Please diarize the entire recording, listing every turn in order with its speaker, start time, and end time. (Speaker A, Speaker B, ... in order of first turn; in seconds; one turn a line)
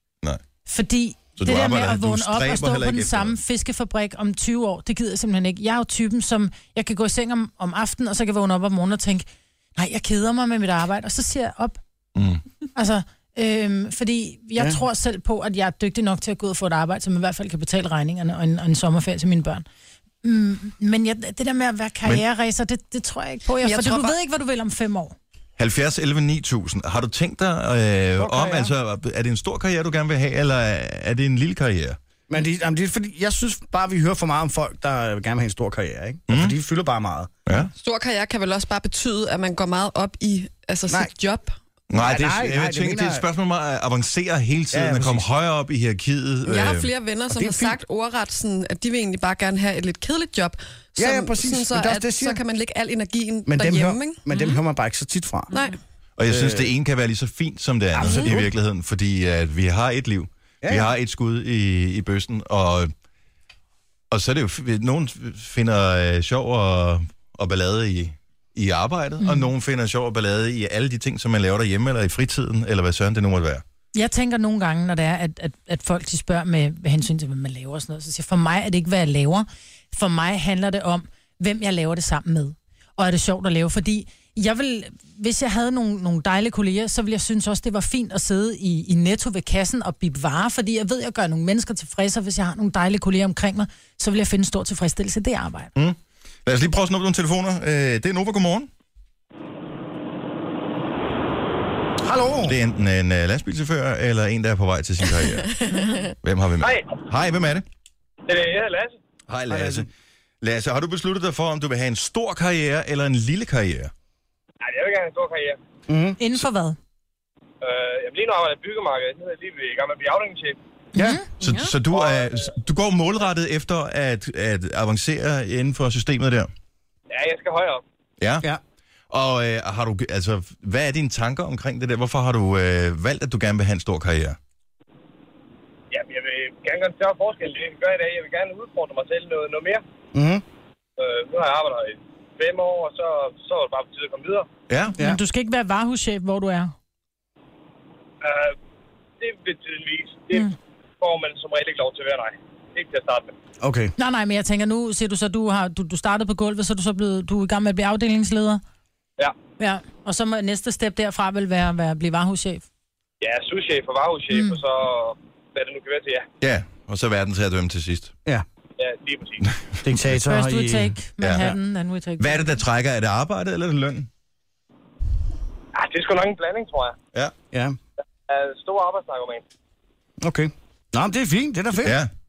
Speaker A: 0.7-11.8
Speaker B: 1.4-3.4
Speaker B: 12.2-12.4
Speaker A: 12.8-19.6
Speaker A: 20.2-25.2
Speaker C: 23.6-24.1
Speaker B: 25.6-32.0
Speaker D: 28.2-28.7
Speaker D: 32.3-37.3
Speaker B: 36.3-36.6
Speaker C: 37.8-41.5
Speaker B: 41.9-46.9
Speaker D: 41.9-43.2
Speaker D: 44.7-45.3
Speaker C: 46.5-54.2
Speaker D: 47.3-47.8
Speaker D: 51.0-52.4
Speaker D: 53.5-55.5
Speaker C: 55.5-55.8
Speaker B: 56.2-62.9
Speaker D: 56.3-56.7
Speaker D: 58.0-58.5
Speaker C: 58.0-58.3
Speaker D: 60.6-60.9
Speaker B: 64.1-73.6
Speaker A: 69.2-69.5
Speaker A: 74.0-95.7
Speaker B: 95.8-98.7
Speaker D: 102.0-102.6
Speaker B: 102.4-105.5
Speaker C: 105.7-106.1
Speaker B: 106.2-107.7
Speaker E: 106.6-107.0
Speaker E: 108.3-109.0
Speaker B: 109.3-109.9
Speaker D: 109.5-109.9
Speaker B: 110.4-113.9
Speaker E: 114.6-115.6
Speaker D: 115.9-116.2
Speaker A: 116.2-116.8
Speaker E: 117.6-120.6
Speaker A: 121.0-121.2
Speaker D: 121.0-121.2
Speaker B: 121.4-126.5
Speaker E: 121.8-122.5
Speaker E: 127.1-127.8
Speaker B: 128.2-128.5
Speaker B: 129.1-134.4
Speaker E: 135.9-139.8
Speaker D: 140.1-140.4
Speaker E: 141.0-144.5
Speaker B: 144.7-145.0
Speaker A: 145.0-146.7
Speaker E: 148.2-148.6
Speaker E: 149.2-150.5
Speaker E: 151.0-153.3
Speaker D: 153.6-153.9
Speaker A: 154.0-158.6
Speaker A: 159.6-162.7
Speaker E: 163.2-166.3
Speaker A: 164.3-164.6
Speaker B: 166.4-168.1
Speaker E: 168.8-169.5
Speaker D: 169.8-171.5
Speaker A: 170.2-172.5
Speaker B: 171.2-171.5
Speaker B: 172.2-174.1
Speaker E: 175.7-177.0
Speaker D: 177.5-177.8
Speaker E: 178.3-179.4
Speaker D: 180.2-182.0
Speaker B: 181.8-182.1